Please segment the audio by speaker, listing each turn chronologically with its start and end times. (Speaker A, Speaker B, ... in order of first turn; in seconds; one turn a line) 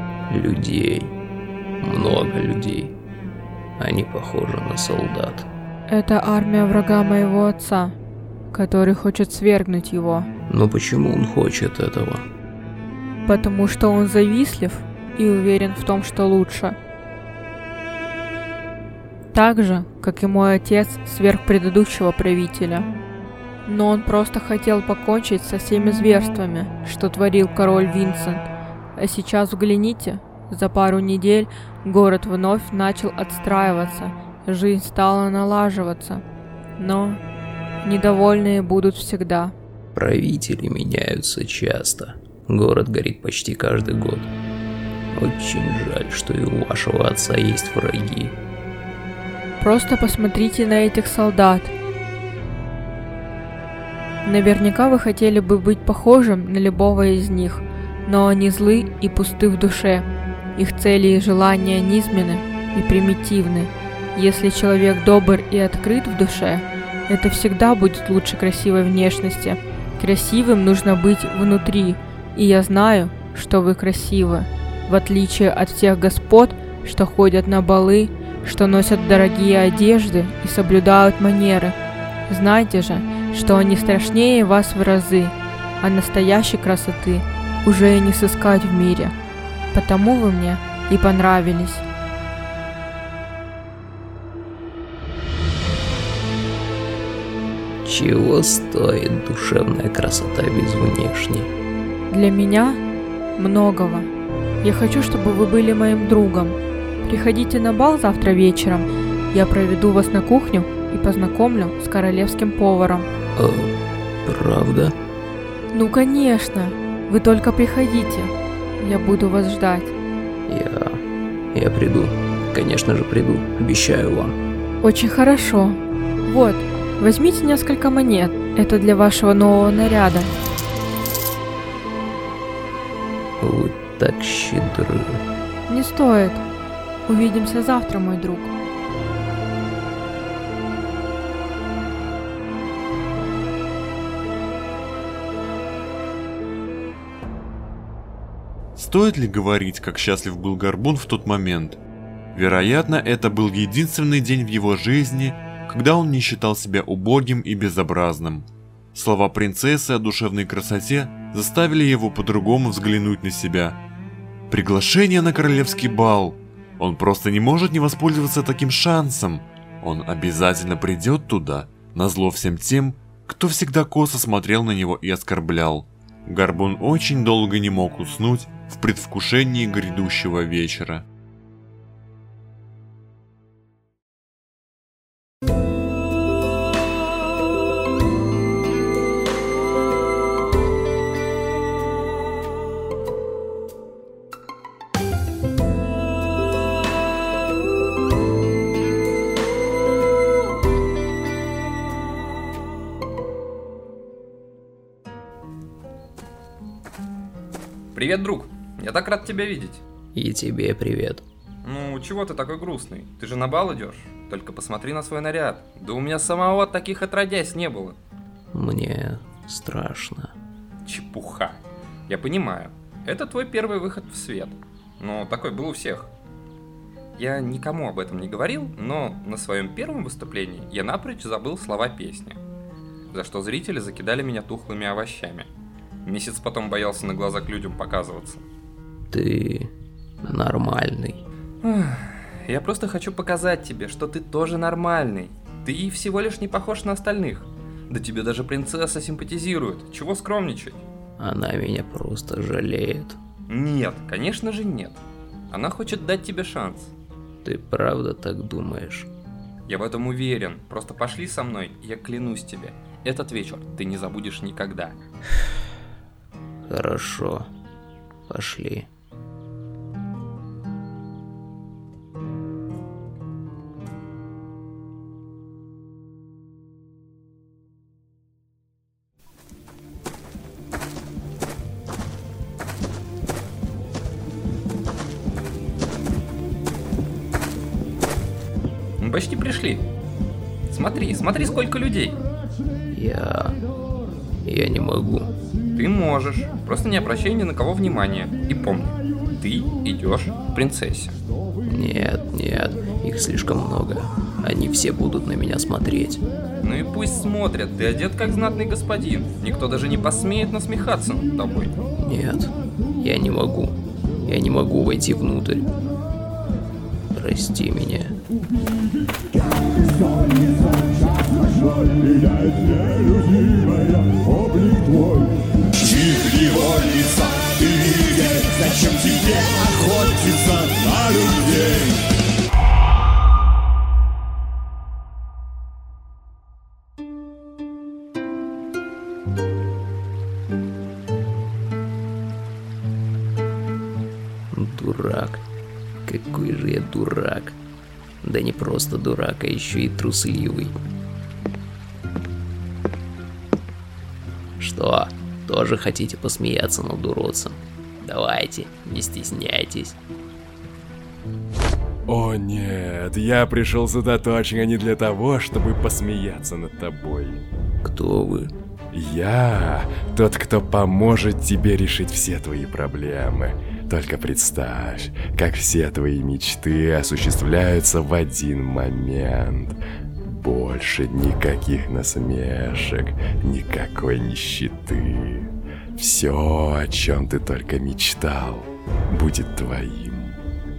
Speaker A: 0.3-1.1
Speaker A: 1.8-2.9
Speaker A: 3.8-5.5
Speaker B: 5.9-8.0
Speaker B: 8.5-10.3
Speaker A: 10.5-12.2
Speaker B: 13.2-16.8
Speaker B: 19.3-22.9
Speaker B: 23.6-36.2
Speaker B: 36.8-37.2
Speaker B: 37.8-39.5
Speaker A: 39.9-44.3
Speaker A: 45.1-48.3
Speaker B: 49.6-51.7
Speaker B: 54.2-81.8
Speaker B: 82.3-89.1
Speaker B: 89.7-91.8
Speaker A: 97.8-101.5
Speaker B: 102.1-102.8
Speaker B: 103.4-104.1
Speaker B: 104.6-113.1
Speaker A: 113.3-113.7
Speaker A: 114.2-115.0
Speaker B: 115.7-119.9
Speaker A: 120.5-121.0
Speaker A: 121.5-124.4
Speaker B: 124.8-130.3
Speaker A: 133.4-135.2
Speaker B: 135.7-136.4
Speaker B: 137.1-138.5
Speaker C: 148.8-151.8
Speaker C: 152.3-163.8
Speaker C: 164.5-181.0
Speaker D: 207.9-209.8
Speaker A: 210.1-211.2
Speaker D: 211.6-218.0
Speaker A: 218.5-220.3
Speaker D: 220.8-226.1
Speaker D: 227.2-232.4
Speaker D: 233.1-235.5
Speaker D: 236.0-238.4
Speaker A: 239.1-239.7
Speaker A: 240.2-241.2
Speaker D: 241.6-250.8
Speaker A: 251.2-253.2
Speaker D: 253.5-256.9
Speaker A: 257.4-259.1
Speaker D: 259.7-265.0
Speaker A: 266.7-267.5
Speaker A: 268.3-268.9
Speaker D: 289.0-289.9
Speaker D: 290.7-292.2
Speaker A: 292.9-293.6
Speaker A: 294.4-295.3
Speaker D: 295.7-301.1
Speaker A: 301.7-306.2
Speaker D: 306.6-311.8
Speaker A: 312.0-315.7
Speaker A: 317.1-318.2
Speaker E: 322.3-322.8
Speaker E: 325.7-331.9
Speaker A: 344.5-345.4
Speaker A: 346.0-347.6
Speaker A: 348.2-350.7
Speaker A: 354.6-360.0
Speaker F: 362.1-367.4
Speaker A: 367.8-368.5
Speaker F: 368.9-390.4